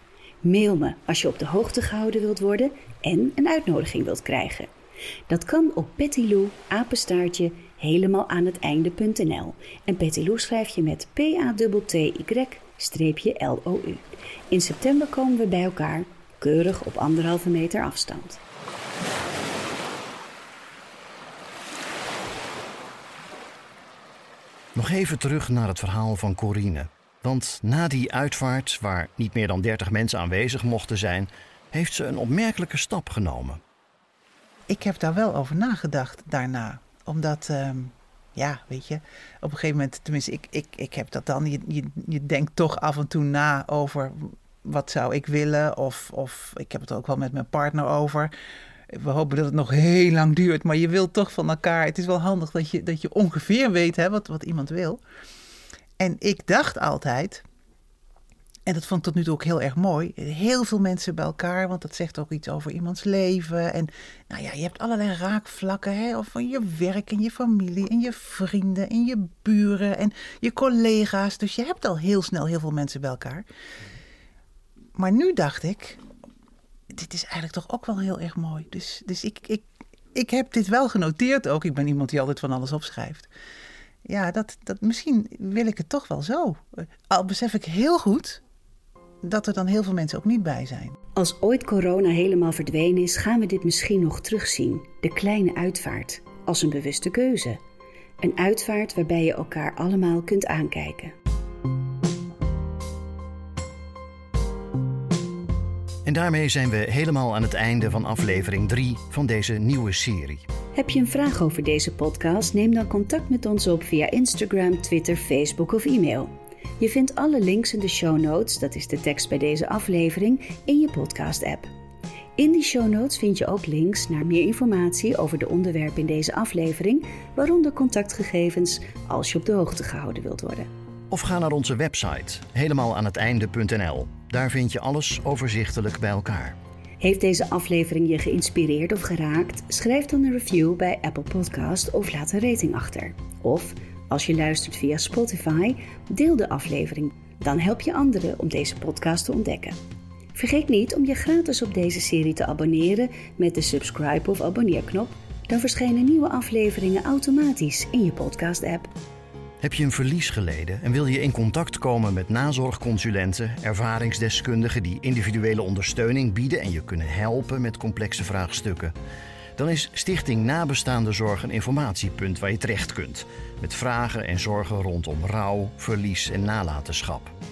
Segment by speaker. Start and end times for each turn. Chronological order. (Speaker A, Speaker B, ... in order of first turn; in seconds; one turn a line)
Speaker A: 0.4-4.7
Speaker A: 5.3-18.4
Speaker B: 24.8-33.6
Speaker C: 34.7-48.3
Speaker C: 48.9-55.0
Speaker C: 56.0-57.4
Speaker C: 58.7-73.5
Speaker C: 75.0-76.0
Speaker C: 76.9-83.3
Speaker C: 84.0-88.4
Speaker C: 89.2-91.0
Speaker A: 91.2-97.6
Speaker A: 98.2-101.2
Speaker B: 106.0-110.4
Speaker A: 110.8-121.7
Speaker A: 122.4-130.7
Speaker B: 131.1-136.6
Speaker A: 137.0-149.8
Speaker A: 150.3-158.9
Speaker B: 159.6-168.9
Speaker B: 169.6-177.3